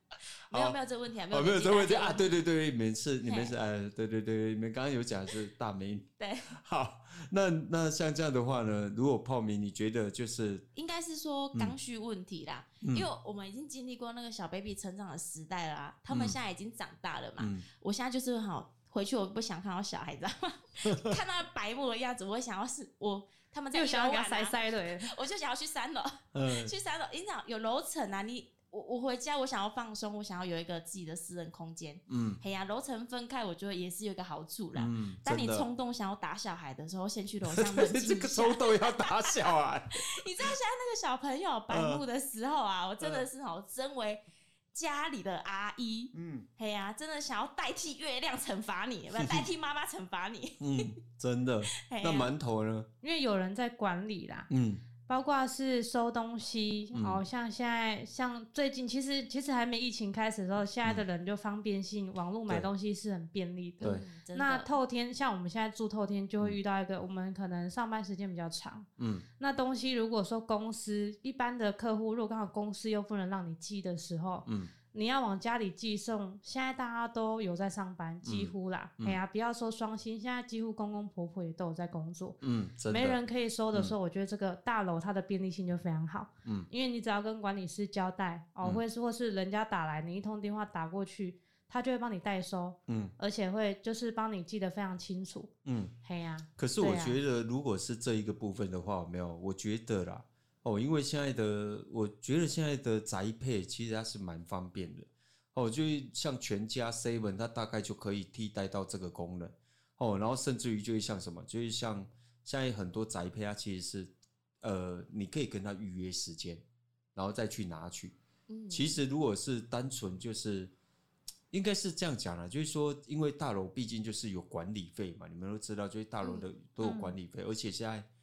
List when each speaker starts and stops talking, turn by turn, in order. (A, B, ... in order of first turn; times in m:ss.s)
0:00.5-0:02.4 A
0:00.5-0:00.8 B
0:01.3-0:10.6 B
0:03.2-0:03.6 A
0:06.2-0:06.5 A
0:10.8-0:39.4 A
0:12.8-0:13.1 B
0:16.1-0:16.4 B
0:17.4-0:17.7 B
0:20.9-0:21.2 B
0:23.7-0:25.1 C
0:26.3-0:26.7 B
0:32.1-0:32.4 B
0:34.8-0:35.7 B
0:37.5-0:40.5 B
0:40.0-0:44.2 A
0:41.7-0:42.0 B
0:43.0-0:43.2 B
0:44.7-0:50.9 A
0:46.1-0:46.5 B
0:49.2-0:49.5 B
0:50.6-0:52.9 B
0:51.8-0:52.3 A
0:53.0-0:54.5 C
0:54.5-0:54.8 B
0:55.1-1:08.9 C
0:56.9-0:57.2 B
1:03.8-1:04.7 A
1:09.0-1:09.2 B
1:09.4-1:22.4 C
1:14.5-1:14.7 B
1:18.2-1:19.2 B
1:22.4-1:23.2 B
1:22.9-1:35.5 C
1:32.9-1:33.1 B
1:35.6-1:35.9 B
1:36.0-1:37.2 C
1:36.6-1:56.6 B
1:57.2-1:58.2 B
1:58.5-1:59.0 A
1:58.7-2:00.7 B
2:01.5-2:08.1 B
2:06.2-2:06.5 A
2:06.8-2:07.2 C